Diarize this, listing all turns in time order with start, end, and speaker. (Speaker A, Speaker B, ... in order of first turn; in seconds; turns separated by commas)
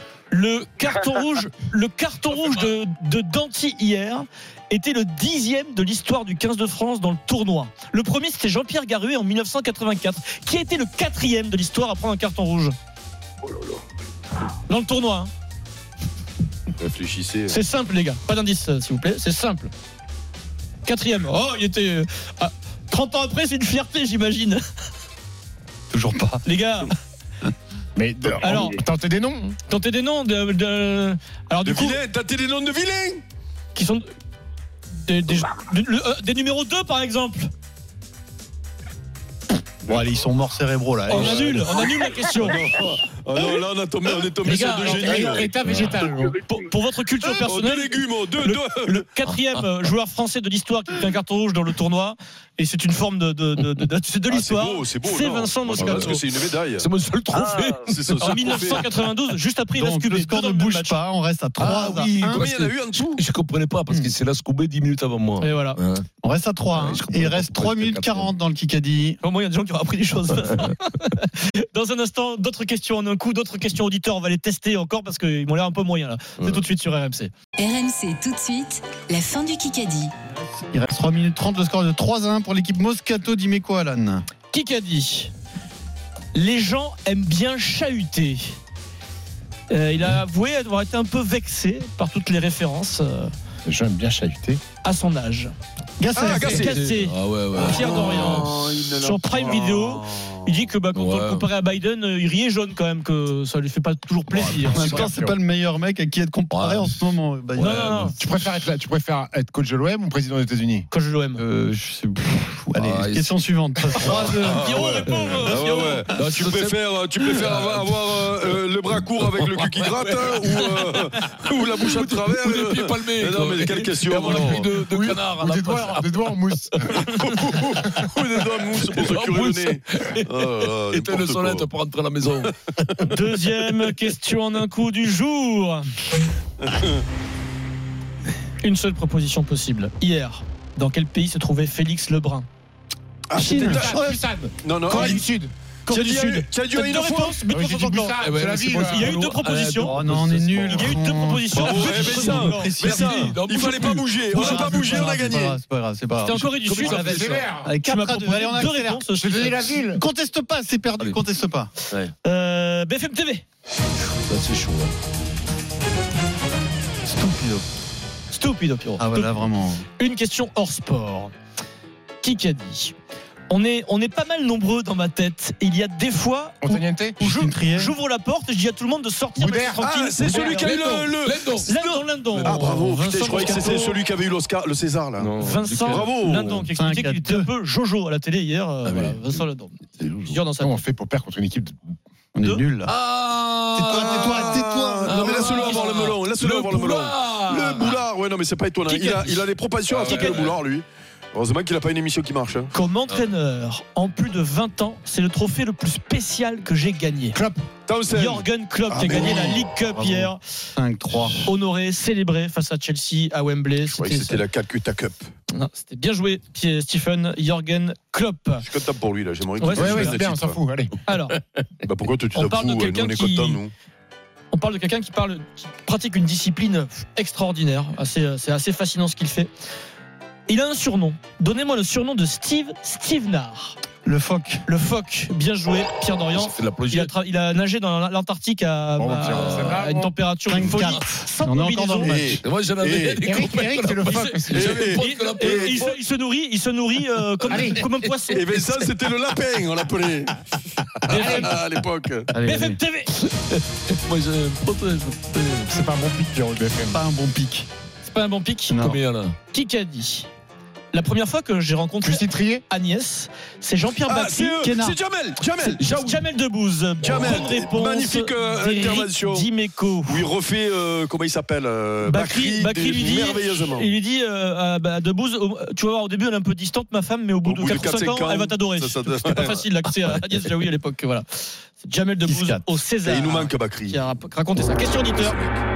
Speaker A: 0.3-12.8, Speaker B: 2.3-2.7, Speaker A: 14.7-15.3, Speaker C: 16.8-17.6, Speaker A: 17.5-19.7, Speaker A: 20.9-24.6, Speaker D: 25.9-26.4, Speaker A: 26.4-26.9, Speaker E: 28.0-29.6, Speaker A: 28.4-28.8, Speaker A: 29.7-32.0, Speaker C: 31.6-33.2, Speaker A: 33.7-34.1, Speaker A: 35.0-37.5, Speaker D: 39.8-41.6, Speaker A: 41.1-42.7, Speaker C: 41.1-41.6, Speaker C: 42.4-45.5, Speaker E: 44.4-46.4, Speaker B: 45.5-46.0, Speaker A: 46.4-56.2, Speaker C: 47.4-49.0, Speaker B: 49.2-49.6, Speaker C: 54.3-56.9, Speaker B: 55.8-56.2, Speaker B: 56.8-59.1, Speaker C: 57.8-58.9, Speaker A: 58.2-61.0, Speaker D: 59.8-62.5, Speaker B: 61.6-66.1, Speaker C: 62.3-63.2, Speaker D: 63.9-64.1, Speaker A: 65.4-65.8, Speaker D: 66.2-69.2, Speaker B: 66.7-68.3, Speaker A: 69.2-77.3, Speaker F: 77.6-80.1, Speaker D: 80.7-84.2, Speaker A: 84.5-85.3, Speaker A: 86.3-88.6, Speaker A: 89.7-93.3, Speaker E: 93.7-94.6, Speaker A: 94.8-95.5, Speaker D: 96.0-96.7, Speaker C: 96.1-96.8, Speaker A: 96.2-105.1, Speaker B: 96.4-98.6, Speaker C: 97.6-100.5, Speaker B: 100.9-101.5, Speaker B: 104.3-105.1, Speaker D: 104.7-108.1, Speaker E: 104.9-105.4, Speaker B: 106.5-107.0, Speaker B: 107.5-108.2, Speaker A: 107.6-108.2, Speaker E: 108.2-110.9, Speaker A: 110.9-111.4, Speaker D: 111.4-115.4, Speaker B: 112.8-114.4, Speaker C: 114.0-124.8, Speaker A: 114.5-116.0, Speaker B: 116.1-126.3, Speaker E: 124.4-127.0, Speaker C: 126.9-131.7, Speaker B: 128.0-133.1, Speaker A: 133.0-135.9, Speaker C: 136.6-137.0, Speaker A: 138.6-142.5, Speaker C: 143.3-144.1, Speaker A: 143.3-144.1, Speaker E: 143.5-145.5, Speaker C: 144.6-145.2, Speaker A: 144.9-145.2, Speaker C: 145.9-147.4, Speaker A: 145.9-150.0, Speaker E: 147.5-149.2, Speaker B: 148.2-150.9, Speaker D: 149.8-153.4, Speaker A: 150.7-152.7, Speaker C: 151.5-155.6, Speaker B: 151.6-154.9, Speaker D: 154.3-159.1, Speaker A: 156.2-159.8, Speaker B: 156.5-157.5, Speaker E: 156.8-157.7, Speaker E: 159.1-160.0, Speaker D: 159.9-161.7, Speaker A: 162.2-163.4, Speaker B: 164.3-164.9, Speaker D: 167.1-167.6, Speaker A: 168.3-171.3, Speaker D: 169.0-169.8, Speaker A: 172.2-172.9, Speaker A: 173.5-181.1, Speaker E: 176.6-177.2, Speaker D: 177.2-178.0, Speaker E: 179.4-179.9, Speaker C: 179.8-185.3, Speaker B: 180.2-181.8, Speaker A: 181.7-184.0, Speaker B: 182.3-182.9, Speaker B: 185.2-186.7, Speaker A: 185.4-190.8, Speaker C: 185.9-186.6, Speaker D: 186.7-187.5, Speaker B: 188.8-189.4, Speaker B: 190.0-190.4, Speaker E: 190.6-191.9, Speaker D: 192.3-192.9, Speaker B: 192.9-198.1, Speaker D: 193.8-195.7, Speaker C: 194.0-202.7, Speaker B: 198.9-200.6, Speaker A: 200.1-200.4, Speaker A: 202.7-207.4, Speaker E: 207.3-207.6, Speaker C: 207.9-209.7, Speaker A: 208.1-210.4, Speaker D: 209.1-211.4, Speaker A: 211.4-214.4, Speaker C: 213.9-215.3, Speaker A: 215.5-218.7, Speaker C: 218.6-220.6, Speaker A: 219.6-220.2, Speaker E: 219.7-220.9, Speaker A: 221.1-221.4, Speaker C: 221.8-223.7, Speaker A: 222.3-223.6, Speaker A: 224.5-229.5, Speaker A: 230.5-233.8, Speaker D: 234.0-234.7, Speaker A: 234.7-242.4, Speaker B: 236.3-237.1, Speaker E: 239.0-240.1, Speaker B: 239.2-239.8, Speaker D: 240.5-242.4, Speaker B: 240.6-241.0, Speaker C: 242.0-243.2, Speaker B: 242.4-246.0, Speaker E: 243.2-244.8, Speaker A: 244.1-248.5, Speaker C: 244.5-245.8, Speaker B: 247.4-248.7, Speaker E: 247.5-247.9, Speaker C: 248.3-252.3, Speaker A: 251.1-251.5, Speaker E: 251.2-251.6, Speaker D: 252.3-252.8, Speaker A: 252.4-253.1, Speaker B: 253.2-255.7, Speaker E: 255.7-257.0, Speaker D: 256.9-257.7, Speaker A: 258.0-258.8, Speaker D: 258.7-259.0, Speaker B: 258.7-259.4, Speaker A: 259.5-260.3, Speaker A: 260.9-264.7, Speaker E: 262.0-262.6, Speaker C: 264.0-265.9, Speaker D: 264.6-265.0, Speaker B: 265.6-266.2, Speaker A: 265.9-270.3, Speaker C: 267.0-269.5, Speaker C: 270.1-273.9, Speaker A: 272.1-285.4, Speaker C: 277.4-279.6, Speaker B: 280.1-280.5, Speaker D: 282.2-282.7, Speaker C: 283.0-284.0, Speaker C: 284.8-285.5